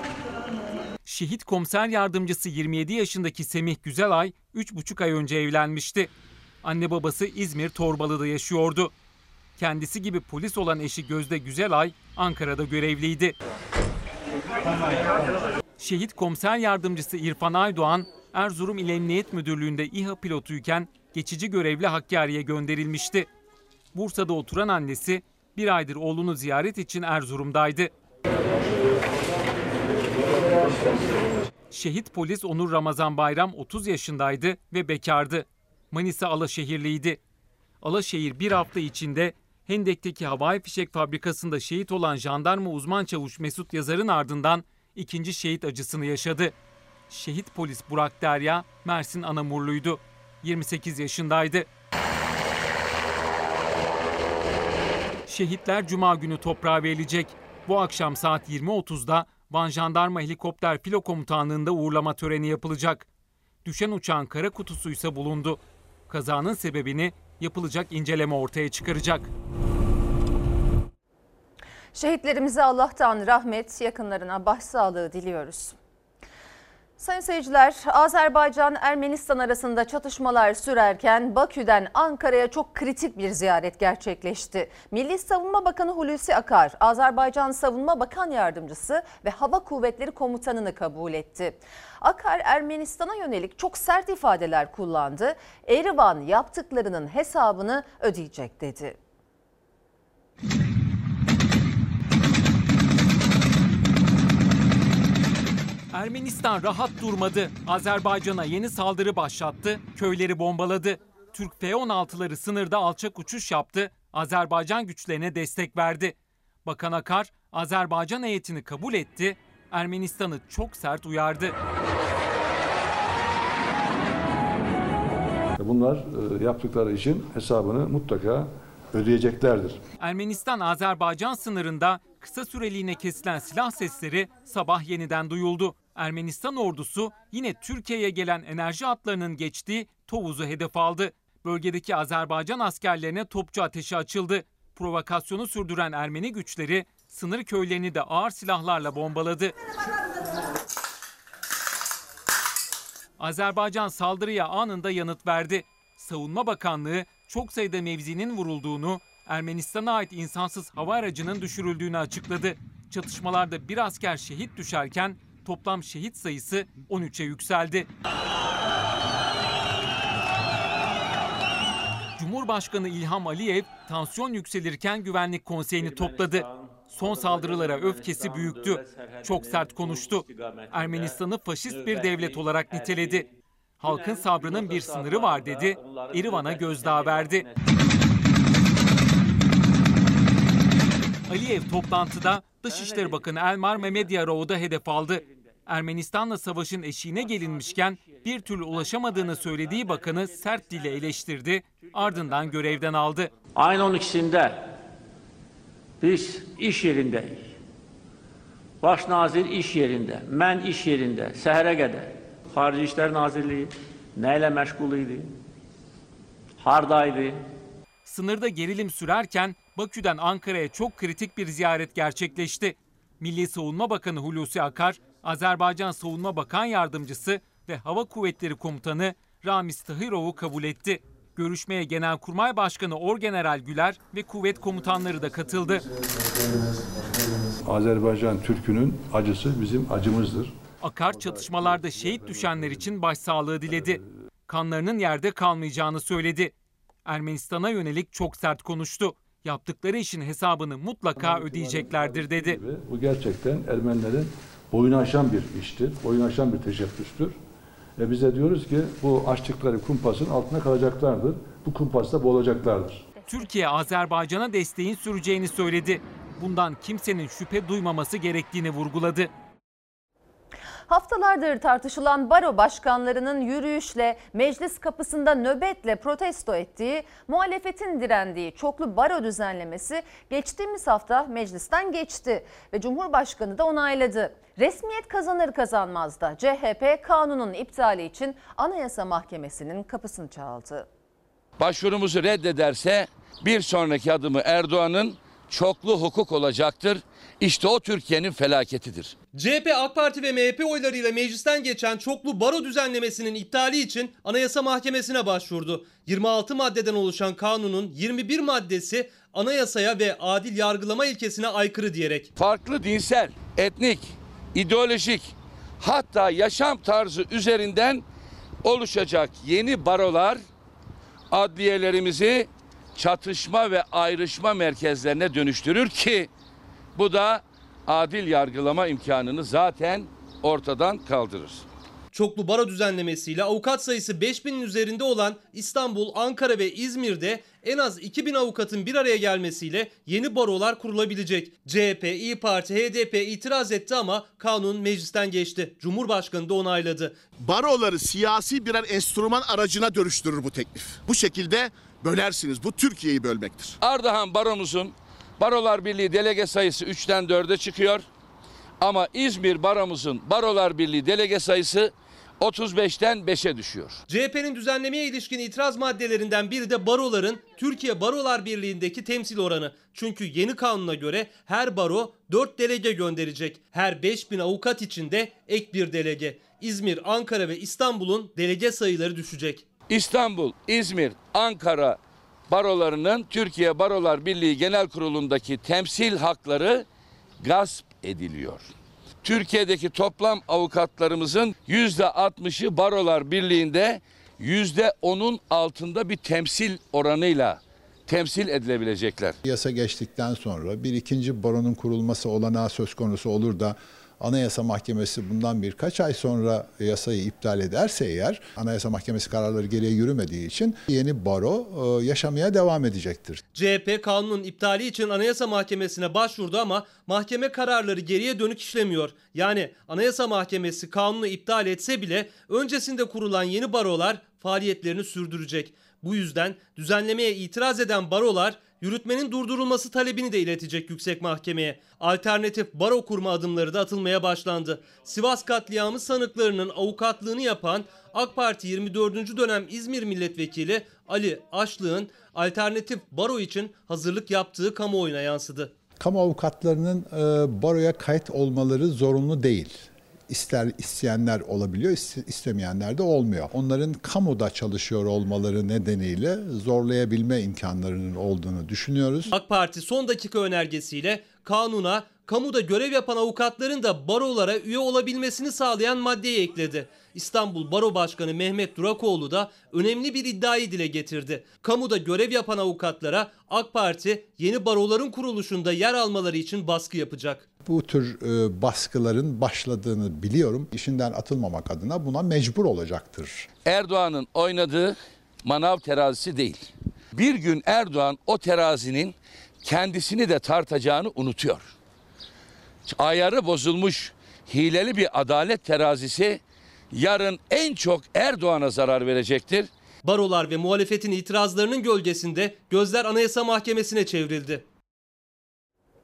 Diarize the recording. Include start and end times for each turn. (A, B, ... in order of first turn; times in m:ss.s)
0:01.0-0:06.1 A
0:06.6-0:08.9 A
0:09.6-0:13.4 A
0:15.8-0:23.3 A
0:23.9-0:27.9 A
0:31.7-0:37.2 A
0:37.8-0:46.5 A
0:47.1-0:51.7 A
0:55.3-1:03.1 A
1:03.6-1:09.3 A
1:12.0-1:15.8 B
1:17.0-1:39.0 B
1:45.9-2:01.6 A
2:05.6-2:09.8 C
2:10.0-2:29.5 A
2:33.2-2:47.9 A
2:52.2-3:03.3 A
2:56.2-2:56.7 D
2:57.4-3:01.0 D
3:03.8-3:07.5 A
3:04.6-3:07.0 D
3:11.3-3:23.3 A
3:23.6-3:24.7 D
3:26.0-3:27.4 D
3:28.8-3:35.3 D
3:36.6-3:37.4 D
3:38.1-3:55.8 A
3:57.6-4:00.6 C
4:00.8-4:06.5 A
4:01.1-4:02.9 C
4:03.7-4:04.0 C
4:07.1-4:12.6 A
4:11.2-4:17.4 C
4:18.0-4:23.1 C
4:23.3-4:29.3 A
4:30.9-4:50.9 B
4:51.6-4:59.2 E
4:59.4-5:12.3 F
5:12.4-5:18.0 E
5:18.6-5:20.4 E
5:21.3-5:26.3 E
5:27.0-5:31.6 E
5:32.1-5:47.2 F
5:47.4-5:53.8 G
5:53.8-5:58.0 E
5:58.8-6:04.0 E
6:04.1-6:19.6 F
6:19.9-6:22.0 E
6:22.5-6:26.8 E
6:27.4-6:28.7 E
6:29.2-6:39.4 E
6:39.4-6:53.4 H
6:53.5-7:25.7 F
7:26.0-7:39.4 H
7:39.3-7:57.4 F
7:57.6-8:03.5 H
8:03.7-8:11.7 E
8:12.9-8:16.4 E
8:16.9-8:19.7 E
8:20.0-8:24.6 F